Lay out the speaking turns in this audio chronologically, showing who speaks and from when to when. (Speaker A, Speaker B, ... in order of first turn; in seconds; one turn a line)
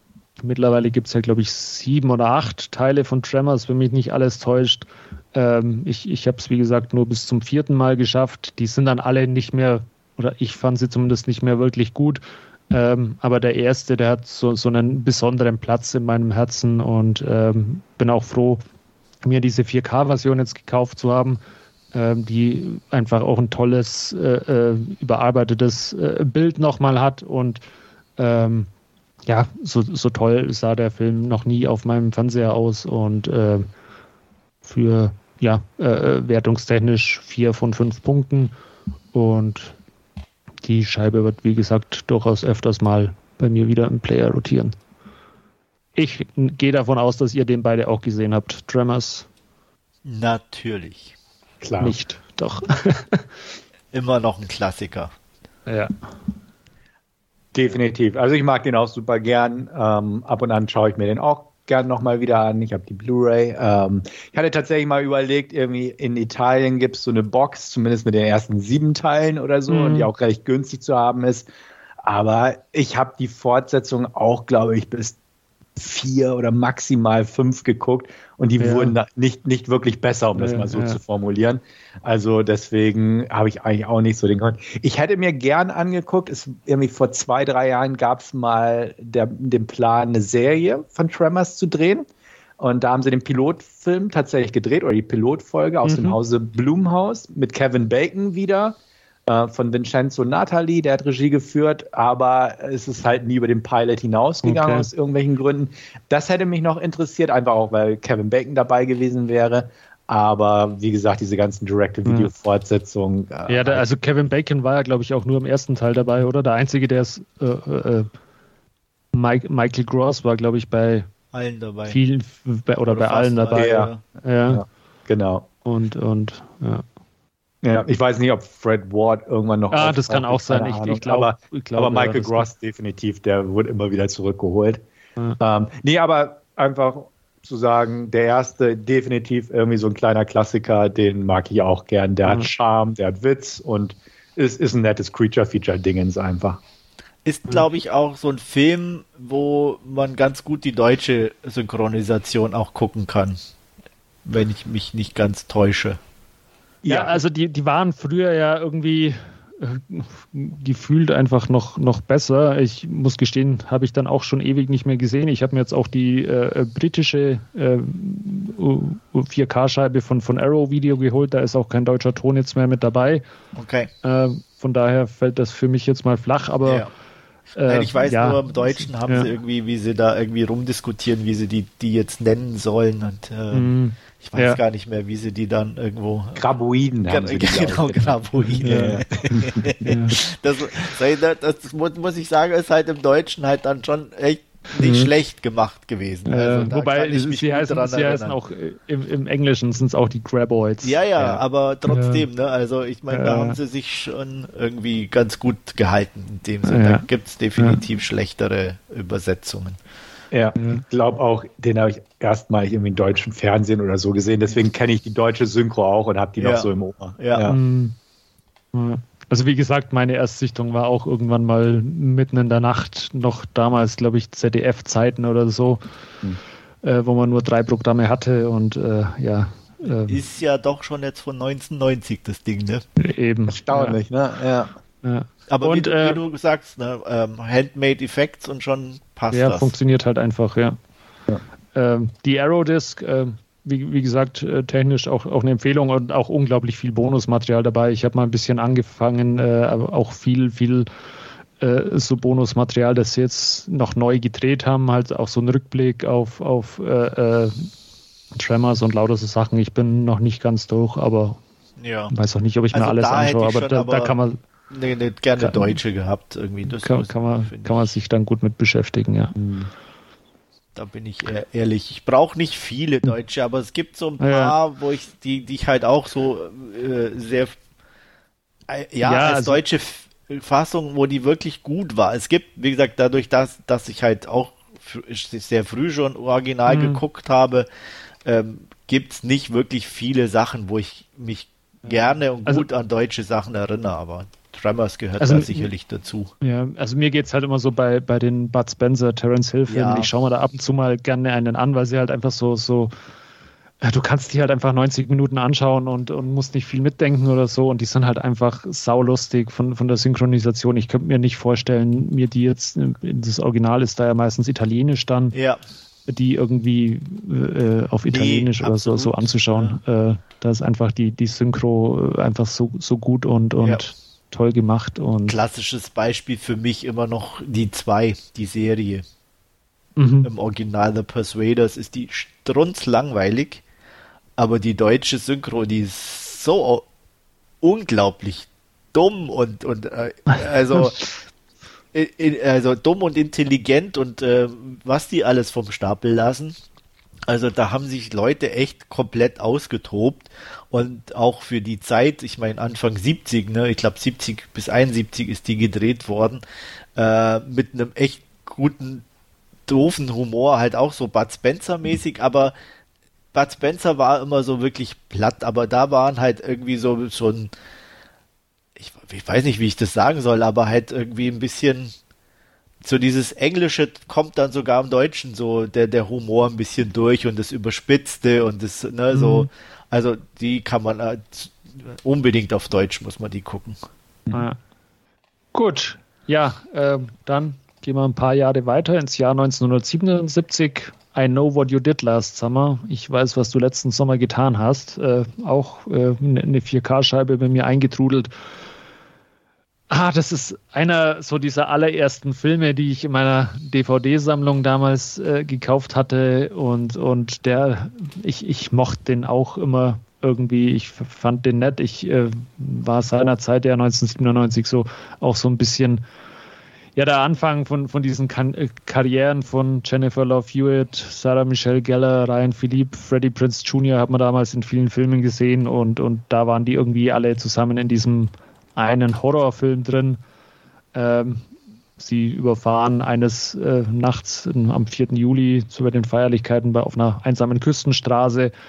Speaker A: 0.4-18.6
Speaker A: 19.2-21.4
Speaker A: 21.9-27.6
Speaker A: 28.2-28.7
Speaker A: 29.3-33.7
Speaker A: 34.6-38.5
Speaker A: 39.1-39.8
Speaker A: 40.6-44.7
Speaker A: 45.9-49.3
Speaker B: 50.0-51.1
Speaker C: 51.6-51.9
Speaker A: 51.8-53.3
Speaker B: 53.9-55.1
Speaker A: 55.7-55.9
Speaker C: 57.5-71.5
Speaker A: 69.7-70.1
Speaker C: 72.0-75.2
Speaker C: 75.8-92.0
Speaker A: 78.6-79.0
Speaker A: 80.4-81.0
Speaker C: 92.6-113.8
Speaker A: 95.8-96.2
Speaker A: 104.4-104.9
Speaker A: 112.0-112.3
Speaker A: 113.5-118.1
Speaker A: 119.1-121.1
Speaker B: 121.3-122.0
Speaker A: 121.8-124.6
Speaker B: 122.9-124.0
Speaker C: 123.5-123.9
Speaker C: 124.5-125.5
Speaker A: 125.6-126.8
Speaker C: 127.6-134.8
Speaker A: 129.7-132.5
Speaker C: 135.4-146.6
Speaker B: 147.2-153.4
Speaker B: 154.2-156.0
Speaker C: 156.8-157.2
Speaker A: 156.8-173.2
Speaker B: 173.5-173.9
Speaker A: 174.0-176.8
Speaker B: 176.6-176.9
Speaker A: 177.6-179.3
Speaker B: 177.7-186.4
Speaker A: 183.5-184.6
Speaker C: 186.3-189.7
Speaker B: 187.1-198.4
Speaker A: 188.6-190.2
Speaker A: 194.8-195.1
Speaker A: 196.2-202.2
Speaker B: 200.8-209.8
Speaker A: 203.1-203.6
Speaker A: 206.7-207.0
Speaker C: 210.3-217.6
Speaker A: 210.6-210.8
Speaker B: 216.4-217.5
Speaker A: 217.5-217.9
Speaker A: 218.7-225.8
Speaker A: 226.8-230.2
Speaker B: 230.0-232.8
Speaker A: 233.0-234.0
Speaker C: 233.5-234.7
Speaker A: 235.0-236.2
Speaker B: 235.5-239.7
Speaker A: 239.3-240.8
Speaker A: 241.7-250.9
Speaker A: 251.6-257.7
Speaker A: 258.3-261.4
Speaker B: 261.8-262.1
Speaker A: 262.1-264.4
Speaker B: 262.7-264.1
Speaker B: 264.7-267.9
Speaker A: 265.4-265.7
Speaker A: 266.7-269.3
Speaker C: 269.4-269.6
Speaker B: 270.7-277.6
Speaker A: 274.2-274.6
Speaker B: 278.7-287.7
Speaker A: 279.0-279.6
Speaker A: 286.6-287.0
Speaker B: 288.2-296.3
Speaker A: 291.9-292.6
Speaker A: 295.2-295.7
Speaker A: 296.4-302.9
Speaker B: 299.7-300.1
Speaker A: 303.8-315.3
Speaker B: 315.3-315.6
Speaker A: 316.1-325.4
Speaker B: 318.1-319.8
Speaker B: 325.3-329.0
Speaker A: 330.0-330.3
Speaker B: 330.2-333.6
Speaker B: 334.4-336.9
Speaker B: 337.6-341.0
Speaker A: 340.3-340.9
Speaker B: 341.9-346.5
Speaker B: 347.3-356.4
Speaker B: 356.9-359.0
Speaker B: 359.7-362.5
Speaker B: 363.3-367.5
Speaker B: 368.8-371.9
Speaker B: 372.8-383.8
Speaker A: 379.1-379.5
Speaker A: 384.3-384.6
Speaker A: 385.5-398.3
Speaker A: 399.9-416.0
Speaker A: 416.9-430.2
Speaker A: 430.9-431.4
Speaker A: 432.0-438.5